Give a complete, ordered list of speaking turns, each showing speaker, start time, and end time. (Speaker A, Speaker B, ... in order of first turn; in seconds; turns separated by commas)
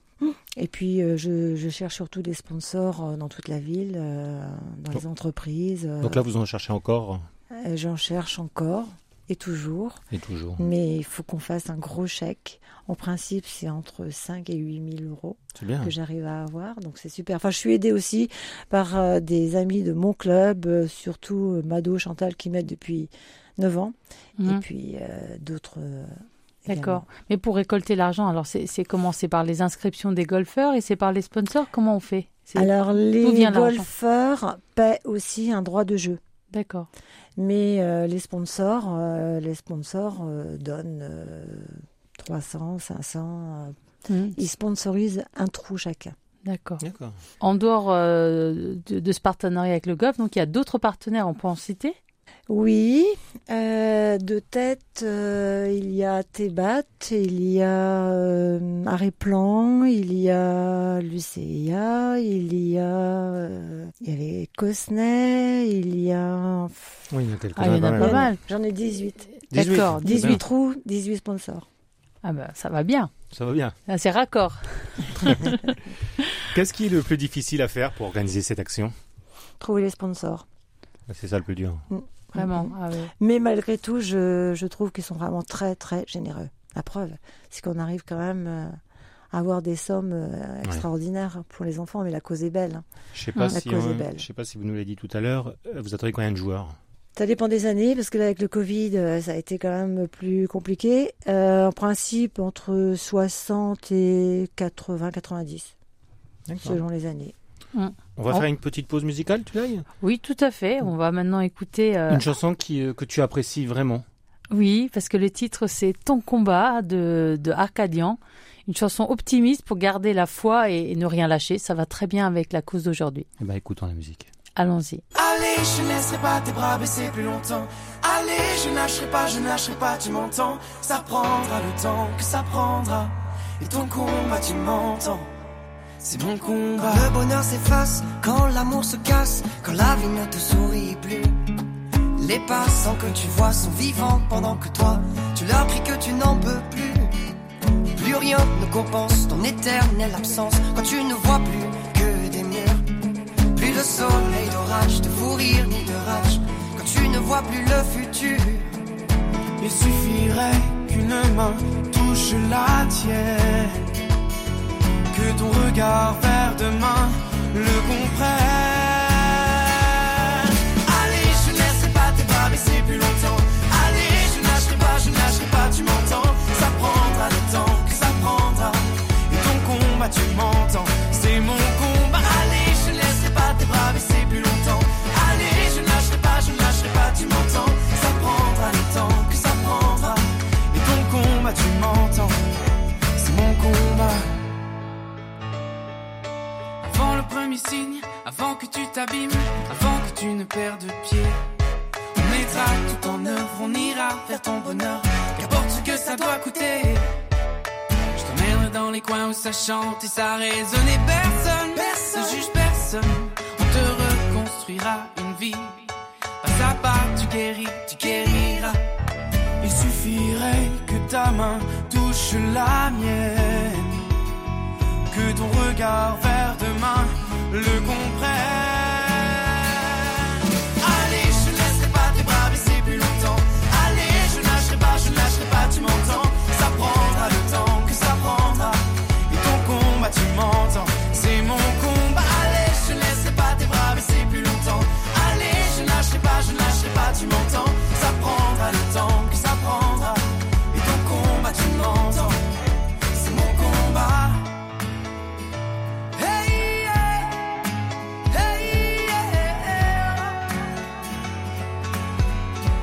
Speaker A: 0.2-6.2, Speaker B: 6.0-7.2, Speaker A: 7.5-10.0, Speaker B: 10.1-10.6, Speaker A: 10.6-27.0, Speaker B: 15.6-15.9, Speaker C: 26.7-33.8, Speaker A: 32.5-36.2, Speaker C: 36.5-36.9, Speaker A: 37.4-43.8, Speaker C: 44.1-44.4, Speaker A: 44.3-46.1, Speaker C: 46.4-46.8, Speaker B: 46.8-47.2, Speaker C: 47.4-52.0, Speaker A: 52.5-67.0, Speaker B: 67.1-68.3, Speaker C: 67.5-68.4, Speaker A: 68.0-69.4, Speaker C: 69.5-70.4, Speaker B: 69.5-70.4, Speaker A: 70.0-71.7, Speaker C: 72.2-73.1, Speaker B: 73.3-73.8, Speaker C: 73.9-75.8, Speaker B: 75.2-75.5, Speaker B: 76.5-78.9, Speaker A: 79.6-80.4, Speaker B: 81.1-81.8, Speaker A: 81.9-88.8, Speaker C: 82.3-83.1, Speaker A: 89.3-92.8, Speaker B: 93.1-96.8, Speaker A: 93.5-94.2, Speaker A: 97.2-105.7, Speaker B: 106.5-106.8, Speaker A: 106.6-107.3, Speaker C: 107.7-108.4, Speaker B: 108.2-109.8, Speaker C: 110.0-112.2, Speaker B: 112.1-114.0, Speaker C: 114.5-123.2, Speaker B: 123.4-124.3, Speaker C: 124.6-125.0, Speaker D: 125.1-135.3, Speaker D: 136.0-137.1, Speaker E: 136.8-141.3, Speaker E: 142.2-147.1, Speaker E: 147.9-152.9, Speaker E: 153.5-158.7, Speaker D: 159.6-164.0, Speaker D: 165.1-192.4, Speaker D: 193.2-194.4, Speaker D: 196.8-201.4, Speaker D: 202.1-207.1, Speaker D: 208.1-215.8, Speaker D: 216.4-218.8, Speaker D: 219.6-224.1, Speaker D: 225.1-252.4, Speaker D: 253.1-254.5, Speaker D: 256.1-257.6, Speaker D: 258.3-260.4